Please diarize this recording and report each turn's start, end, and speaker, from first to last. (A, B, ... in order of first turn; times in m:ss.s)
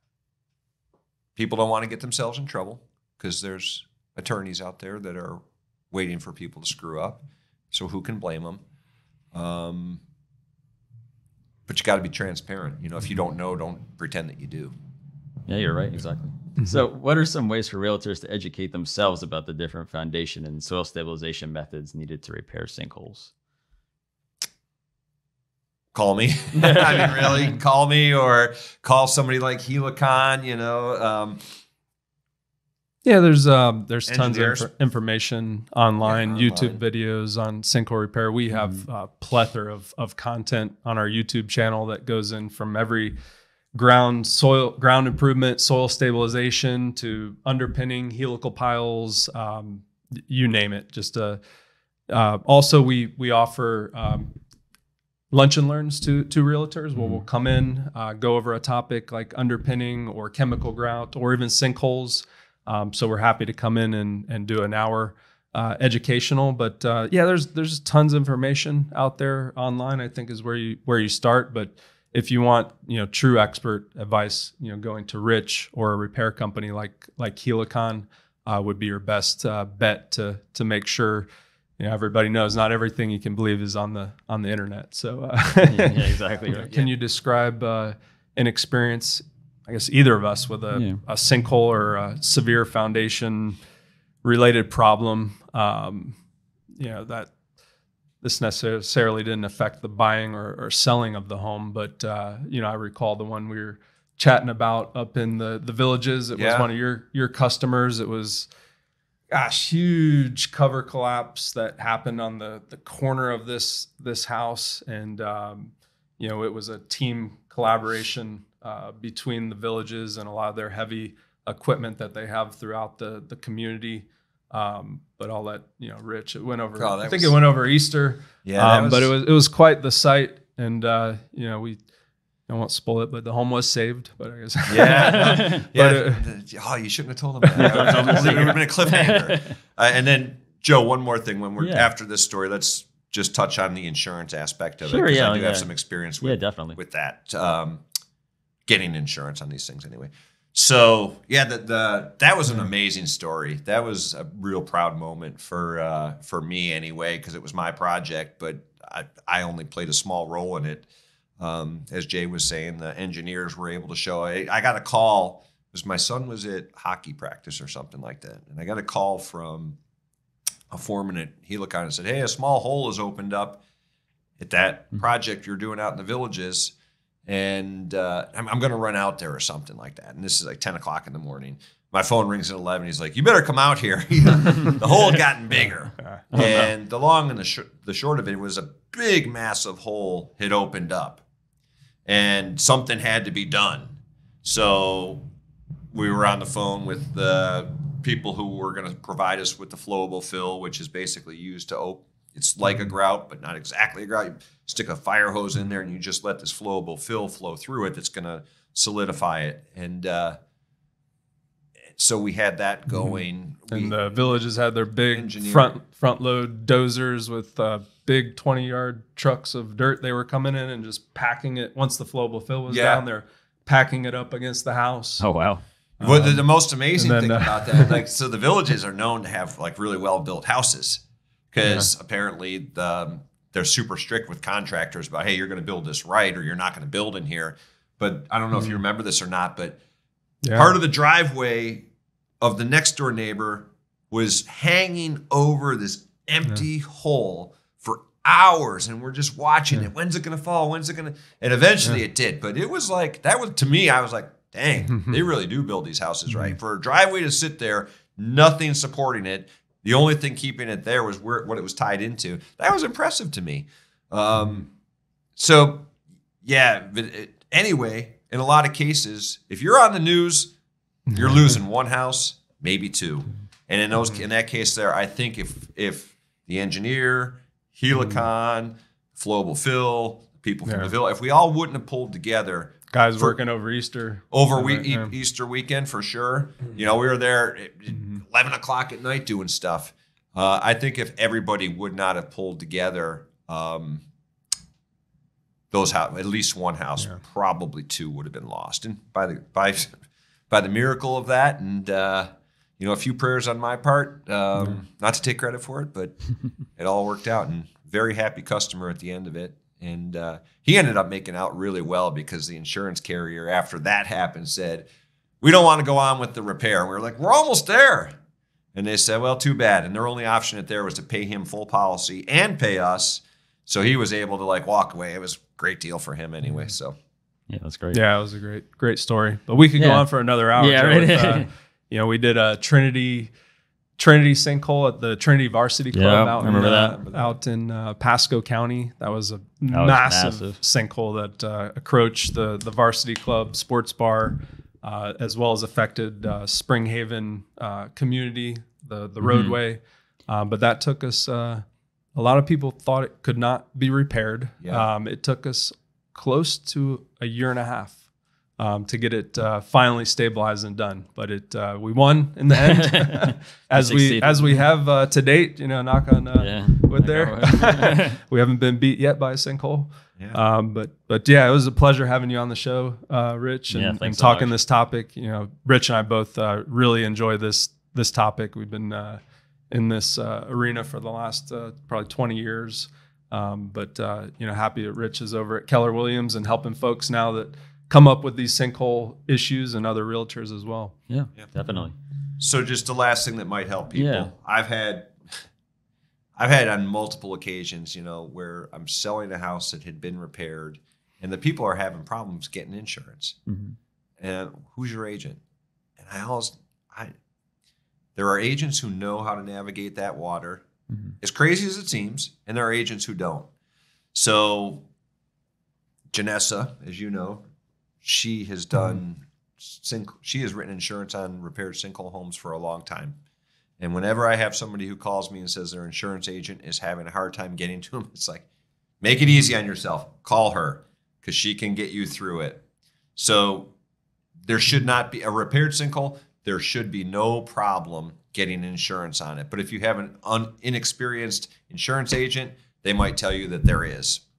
0:01.4-0:08.6 A
0:09.3-0:10.0 A
0:11.7-0:14.7 A
0:15.5-0:23.3 B
0:25.9-0:31.4 A
0:26.5-0:27.5 B
0:33.0-0:43.2 C
0:34.1-0:34.7 A
0:36.0-0:36.8 A
0:43.7-0:51.4 C
0:52.1-0:54.3 C
0:55.3-1:21.3 C
0:57.0-0:57.2 B
1:21.8-1:33.6 C
1:25.7-1:26.7 B
1:26.6-1:26.9 A
1:30.7-1:31.0 B
1:34.2-1:36.2 C
1:36.8-1:37.3 C
1:38.2-1:48.5 C
1:46.3-1:46.7 A
1:49.3-2:11.8 C
2:06.8-2:07.4 A
2:08.4-2:09.1 A
2:12.5-2:16.2 C
2:14.7-2:27.8 A
2:15.0-2:15.6 B
2:17.4-2:18.5 C
2:17.6-2:19.5 B
2:21.6-2:21.9 B
2:24.8-2:25.7 B
2:26.2-2:26.8 B
2:28.7-2:40.9 A
2:41.4-2:49.8 A
2:50.7-2:53.6 A
2:54.4-2:56.7 A
2:57.2-3:11.2 A
3:06.3-3:06.7 B
3:12.0-3:15.3 A
3:15.9-3:30.4 A
3:32.0-3:34.3 A
3:33.7-3:45.2 C
3:35.1-3:35.8 A
3:42.7-3:43.0 A
3:45.2-3:45.6 B
3:46.0-3:48.0 C
3:46.0-3:59.8 A
4:00.4-4:00.8 C
4:00.5-4:01.9 A
4:02.4-4:24.7 A
4:14.9-4:15.2 C
4:16.3-4:16.6 C
4:25.4-4:25.9 A
4:26.4-4:30.5 A
4:31.1-4:31.5 C
4:31.1-4:43.4 A
4:37.9-4:38.2 C
4:40.6-4:40.9 C
4:42.9-4:45.1 C
4:44.3-4:54.0 A
4:47.9-4:48.2 C
4:55.7-5:00.0 A
5:00.5-5:06.2 A
5:06.8-5:14.9 A
5:15.4-5:18.2 A
5:18.7-5:27.0 A
5:27.5-5:28.0 B
5:27.9-5:33.3 C
5:29.8-5:31.5 B
5:34.0-5:51.6 C
5:35.9-5:37.1 B
5:39.7-5:40.6 B
5:49.2-5:49.6 B
5:52.2-5:58.0 C
5:54.6-5:54.9 A
5:58.6-6:30.9 C
6:02.6-6:04.6 B
6:06.4-6:08.2 B
6:13.7-6:14.5 B
6:31.1-6:31.9 B
6:32.4-6:35.4 A
6:33.9-6:34.3 B
6:36.4-6:43.4 A
6:43.5-6:43.8 B
6:44.2-6:45.4 A
6:46.0-6:47.1 A
6:48.2-6:50.7 A
6:51.2-6:53.5 A
6:54.1-6:54.9 A
6:56.1-6:57.4 A
6:58.0-7:03.2 A
7:03.8-7:08.4 A
7:09.0-7:12.6 A
7:13.2-7:13.7 A
7:14.4-7:24.2 A